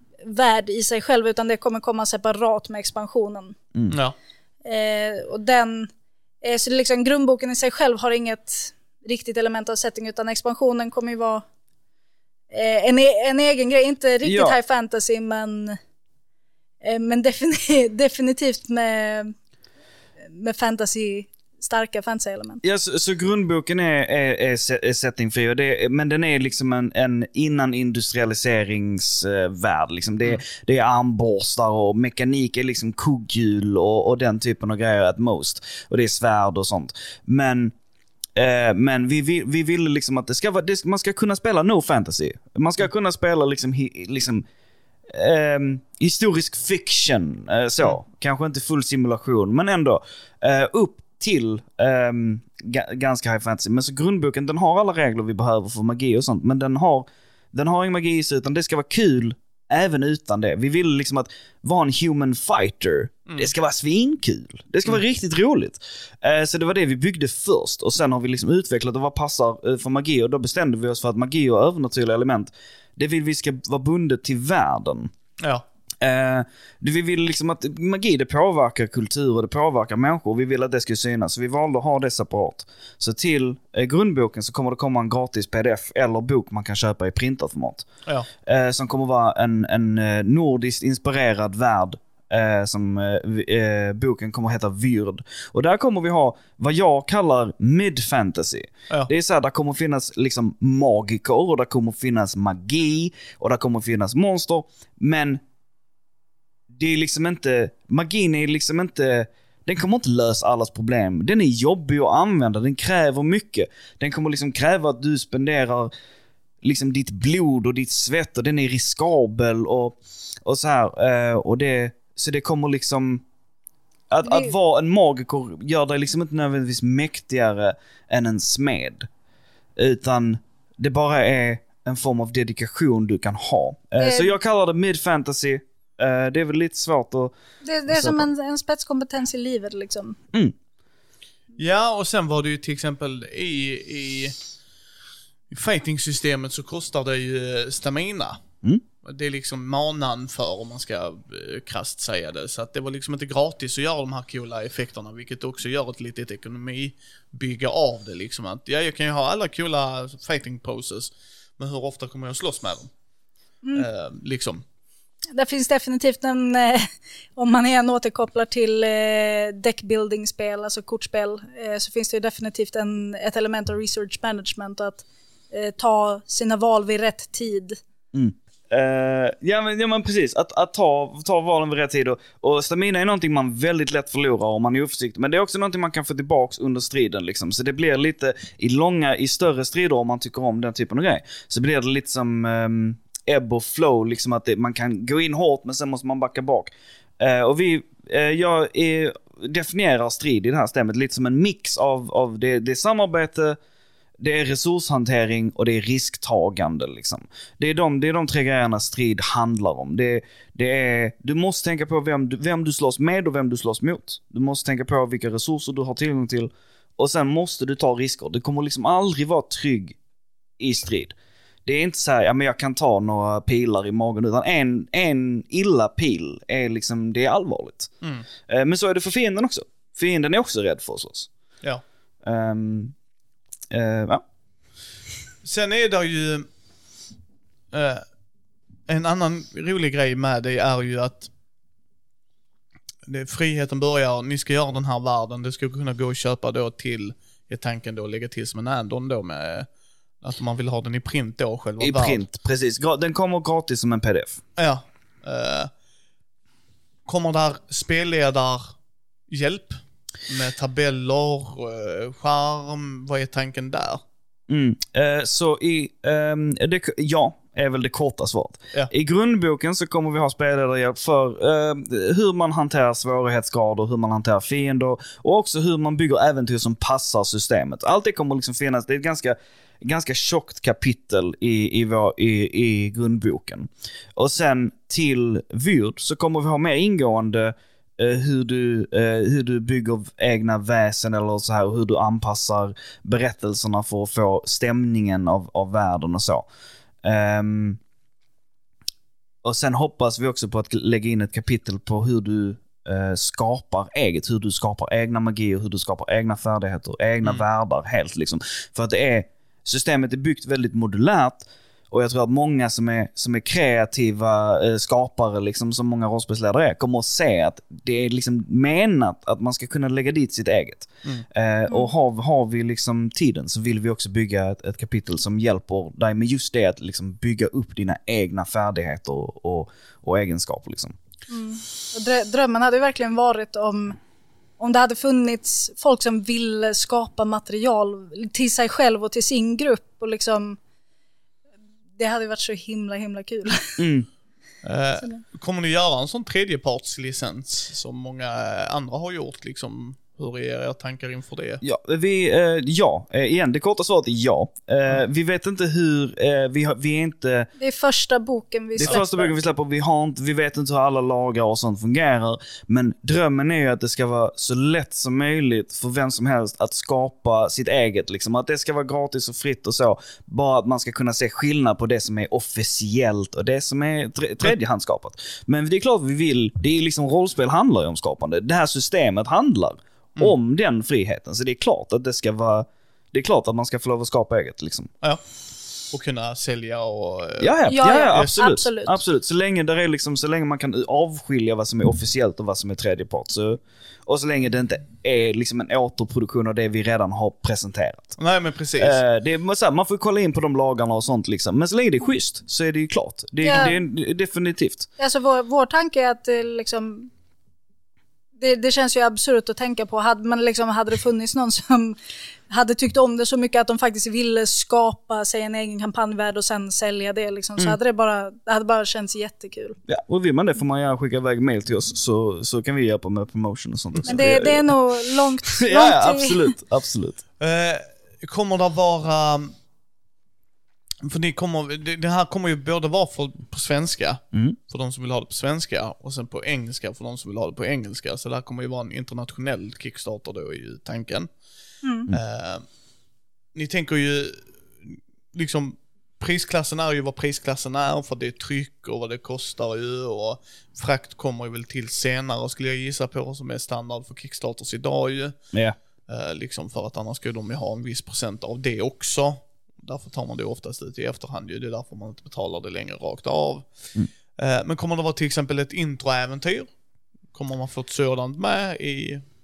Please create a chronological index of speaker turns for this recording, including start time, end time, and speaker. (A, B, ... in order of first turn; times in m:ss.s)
0:00.2-0:03.6 A
0:03.9-0:04.2 B
0:04.6-0:05.9 A
0:06.4-0:11.4 A
0:12.5-0:15.8 A
0:14.2-0:14.6 C
0:16.8-0:19.3 A
0:20.2-0:22.6 A
0:22.6-0:37.7 C
0:38.4-0:44.4 C
0:45.1-1:15.1 C
1:16.0-1:27.9 C
1:28.4-1:45.4 C
1:46.7-1:55.9 C
1:56.6-2:03.2 C
2:04.1-2:09.1 C
2:04.2-2:04.5 A
2:09.8-2:17.3 C
2:14.0-2:14.4 A
2:17.6-2:20.2 A
2:17.9-2:18.3 C
2:21.6-2:24.3 B
2:25.5-2:28.4 B
2:29.0-2:42.9 B
2:43.7-2:44.6 B
2:45.3-2:57.8 A
2:58.1-3:23.6 C
3:24.2-3:40.0 C
3:40.6-3:41.1 C
3:41.6-3:47.9 C
3:48.0-3:48.3 B
3:48.5-3:51.3 C
3:52.2-3:52.9 C
3:53.7-3:54.2 C
3:55.4-3:56.5 B
3:57.7-3:58.0 B
3:58.9-4:01.3 B
4:03.0-4:09.7 B
4:10.2-4:12.2 B
4:11.8-4:14.4 C
4:14.6-4:15.7 B
4:17.0-4:18.7 B
4:19.3-4:24.0 B
4:24.5-4:56.4 C
4:57.0-4:57.8 C
4:59.4-5:30.9 C
5:31.3-5:34.0 A
5:34.6-5:40.6 A
5:42.0-5:43.8 A
5:43.8-5:44.1 C
5:44.6-5:51.6 B
5:51.6-5:57.5 C
5:57.6-5:59.3 A
5:58.8-6:24.9 C
6:25.9-6:28.3 B
6:27.4-6:38.2 C
6:27.7-6:29.0 A
6:38.2-6:39.0 B
6:38.8-6:44.9 C
6:43.4-6:43.8 A
6:45.0-6:47.1 A
6:48.4-6:52.0 A
6:52.5-6:59.8 A
6:59.9-7:04.7 C
7:04.1-7:06.5 A
7:05.4-7:07.2 C
7:07.4-7:09.5 B
7:11.0-7:21.3 B
7:21.8-7:22.1 A
7:22.1-7:22.6 B
7:23.5-7:35.3 B
7:36.1-7:43.7 B
7:44.4-7:46.7 B
7:47.3-7:49.2 B